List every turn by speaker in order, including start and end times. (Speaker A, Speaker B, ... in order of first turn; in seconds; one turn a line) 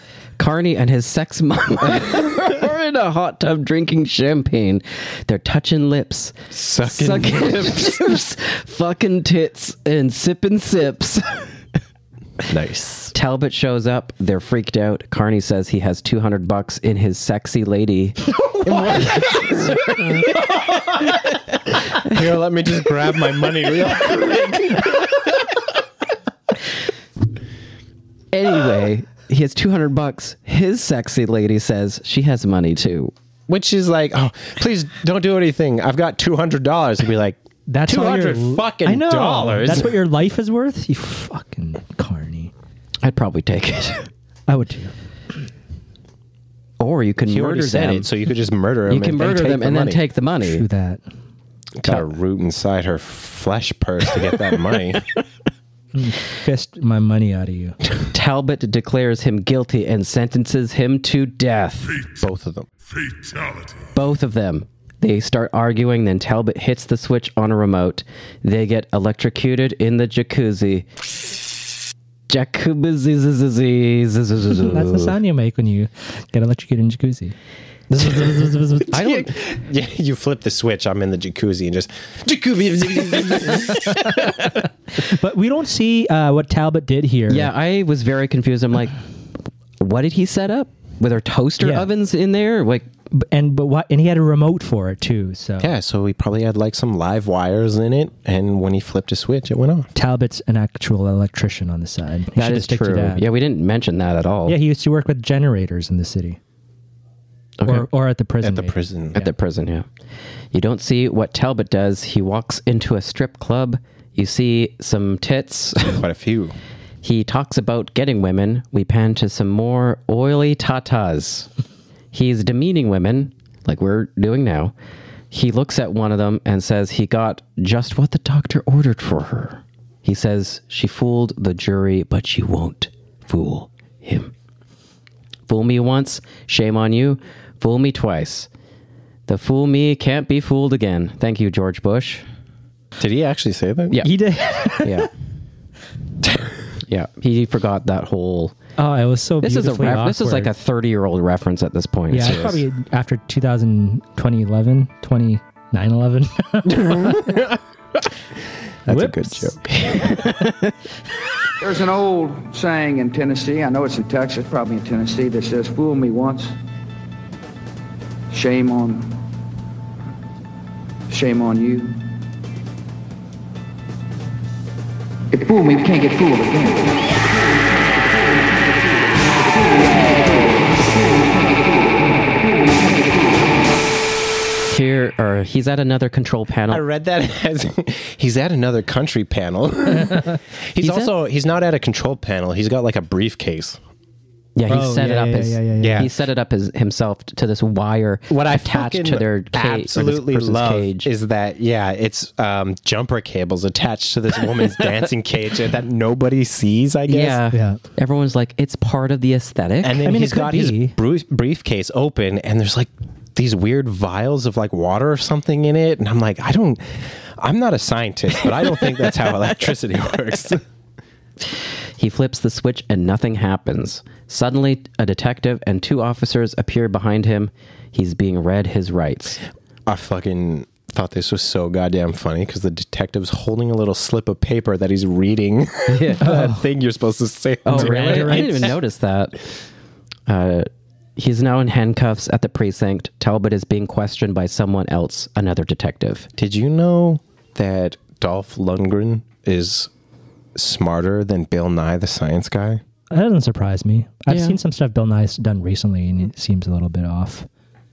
Speaker A: 0.4-11.5
Speaker B: 6.5-8.1
Speaker B: 12.5-13.1
Speaker A: 13.1-20.4
Speaker B: 22.0-25.1
Speaker A: 28.3-33.1
Speaker B: 33.5-39.9
Speaker C: 37.7-42.5
Speaker A: 43.0-44.1
Speaker C: 44.5-44.9
Speaker A: 46.8-48.1
Speaker B: 47.2-50.0
Speaker A: 48.9-50.6
Speaker C: 50.4-51.0
Speaker B: 51.8-55.0
Speaker C: 55.9-57.8
Speaker A: 58.1-62.1
Speaker B: 62.1-62.7
Speaker A: 63.9-70.8
Speaker A: 72.3-75.2
Speaker C: 74.5-77.3
Speaker C: 77.9-78.9
Speaker B: 78.9-84.3
Speaker A: 78.9-79.3
Speaker C: 85.1-87.5
Speaker A: 87.3-88.9
Speaker A: 89.8-92.8
Speaker C: 91.6-91.9
Speaker C: 93.1-95.7
Speaker B: 95.6-99.9
Speaker C: 99.9-103.2
Speaker A: 102.4-104.6
Speaker C: 104.5-106.4
Speaker A: 107.6-107.9
Speaker C: 107.7-109.2
Speaker B: 108.4-109.3
Speaker A: 109.1-109.8
Speaker A: 110.5-116.0
Speaker B: 115.9-116.5
Speaker A: 117.0-121.5
Speaker A: 122.1-124.7
Speaker A: 125.3-134.3
Speaker A: 135.5-138.5
Speaker A: 139.3-142.2
Speaker B: 143.0-144.0
Speaker C: 144.0-145.1
Speaker A: 144.8-145.1
Speaker A: 146.9-148.6
Speaker C: 148.8-150.5
Speaker A: 149.4-152.6
Speaker C: 152.1-157.1
Speaker B: 156.7-157.6
Speaker B: 158.8-159.8
Speaker C: 158.9-159.6
Speaker A: 159.8-160.7
Speaker D: 161.6-166.6
Speaker D: 168.3-169.2
Speaker D: 171.1-172.1
Speaker D: 175.3-177.2
Speaker D: 179.5-183.3
Speaker A: 184.7-186.8
Speaker B: 186.7-193.8
Speaker A: 190.8-191.1
Speaker A: 194.6-201.1
Speaker C: 194.7-196.1
Speaker B: 195.8-196.1
Speaker B: 198.3-207.4
Speaker A: 207.1-210.0
Speaker C: 207.5-207.8
Speaker B: 209.8-220.6
Speaker C: 210.0-210.9
Speaker A: 222.0-229.4
Speaker B: 229.9-238.7
Speaker A: 235.9-236.4
Speaker C: 236.2-236.6
Speaker A: 237.7-239.4
Speaker C: 237.7-238.7
Speaker A: 240.3-246.3
Speaker B: 246.4-249.9
Speaker B: 250.5-252.8
Speaker C: 253.1-257.5
Speaker A: 254.3-254.6